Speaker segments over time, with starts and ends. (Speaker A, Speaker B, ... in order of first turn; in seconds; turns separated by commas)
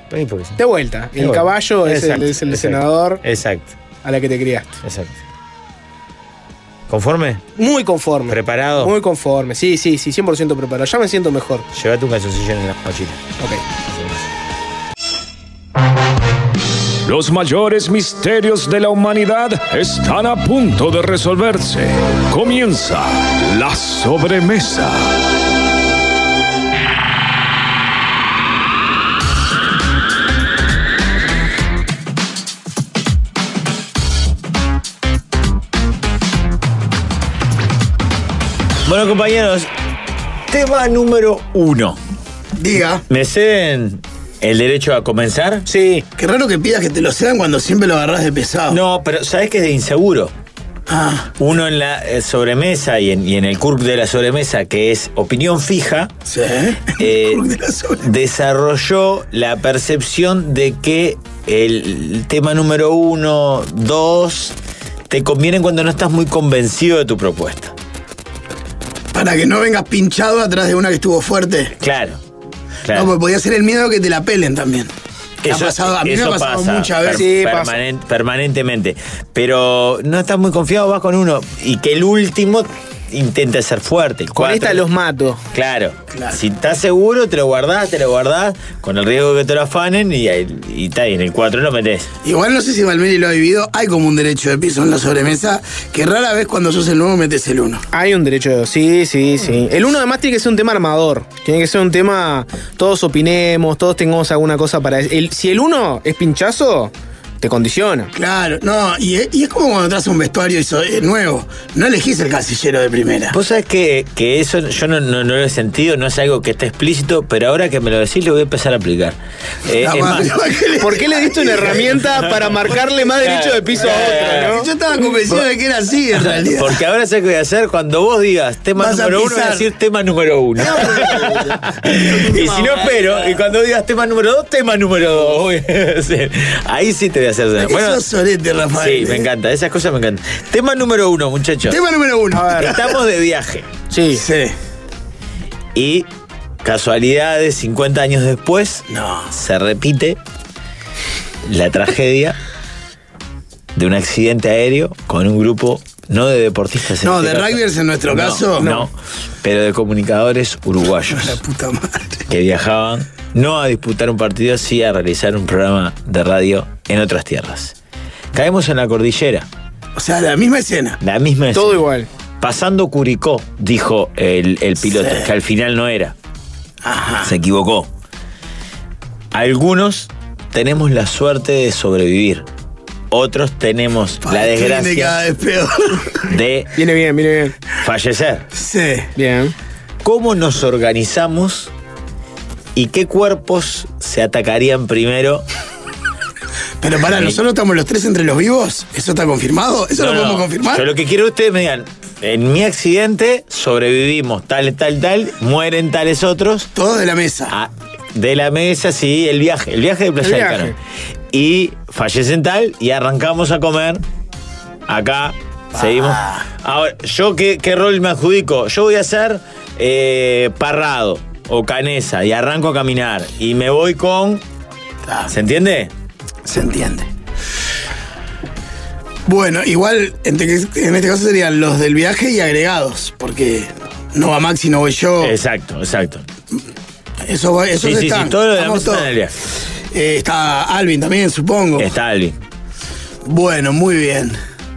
Speaker A: 0.1-0.6, Speaker B: 0.6-3.2, Speaker A: 1.2-3.8, Speaker B: 4.0-4.8, Speaker A: 4.8-5.2, Speaker A: 6.9-7.4, Speaker B: 7.6-11.7, Speaker A: 8.3-8.9, Speaker A: 11.7-13.2, Speaker A: 13.8-14.3, Speaker C: 17.0-25.2, Speaker A: 38.8-39.7, Speaker A: 40.5-42.0, Speaker D: 42.6-43.0, Speaker A: 43.1-45.7, Speaker B: 45.7-46.0, Speaker D: 46.2-48.8, Speaker A: 48.7-50.3, Speaker D: 50.9-51.3, Speaker A: 51.4-56.1, Speaker D: 56.3-58.0, Speaker A: 57.0-57.4, Speaker A: 58.0-64.5, Speaker A: 65.1-67.7, Speaker D: 69.1-71.7, Speaker A: 71.8-72.2, Speaker A: 72.8-73.1, Speaker D: 72.9-74.9, Speaker A: 75.4-84.8, Speaker D: 75.5-77.2, Speaker B: 77.1-77.8, Speaker B: 84.3-85.4, Speaker A: 85.5-92.1, Speaker D: 86.1-86.4, Speaker D: 92.2-97.8, Speaker B: 97.9-108.1, Speaker D: 108.1-113.3, Speaker A: 113.3-120.4, Speaker D: 119.8-121.7, Speaker B: 120.8-124.7, Speaker A: 122.0-122.3, Speaker A: 123.2-124.5, Speaker D: 123.8-126.8, Speaker A: 126.2-138.0, Speaker D: 128.8-129.7, Speaker D: 130.6-131.4, Speaker D: 131.9-133.1, Speaker D: 137.6-139.3, Speaker A: 138.7-141.8, Speaker D: 141.7-142.8, Speaker B: 142.3-142.7, Speaker A: 142.5-143.7, Speaker B: 143.9-144.2, Speaker D: 144.1-144.5, Speaker A: 145.7-146.1, Speaker A: 146.6-150.2, Speaker D: 148.9-149.3, Speaker A: 151.4-152.3, Speaker A: 153.7-161.4, Speaker D: 157.0-158.8, Speaker D: 161.1-162.2, Speaker A: 162.3-167.7, Speaker A: 168.3-169.5, Speaker D: 169.9-171.0, Speaker A: 171.0-171.8, Speaker B: 171.5-172.1, Speaker A: 172.4-176.1, Speaker D: 174.8-175.2, Speaker D: 176.8-177.3, Speaker A: 177.2-177.9, Speaker A: 179.3-182.4, Speaker A: 183.1-185.2, Speaker D: 184.2-186.1, Speaker A: 186.2-186.7, Speaker B: 186.8-187.6, Speaker A: 187.8-188.5, Speaker D: 188.5-189.1, Speaker B: 189.2-189.5, Speaker A: 190.0-191.7, Speaker A: 192.7-195.4, Speaker D: 196.8-200.8, Speaker A: 197.1-197.4, Speaker A: 200.0-206.7, Speaker D: 206.7-207.5, Speaker A: 207.5-210.7, Speaker B: 210.2-210.7, Speaker A: 211.3-214.0, Speaker A: 214.9-224.4, Speaker D: 215.8-216.4, Speaker A: 225.3-225.9, Speaker D: 226.4-227.1, Speaker D: 229.2-235.3, Speaker A: 235.2-236.2, Speaker D: 237.2-239.1, Speaker A: 237.8-239.3, Speaker D: 239.9-241.9, Speaker A: 241.8-242.4, Speaker D: 243.2-244.4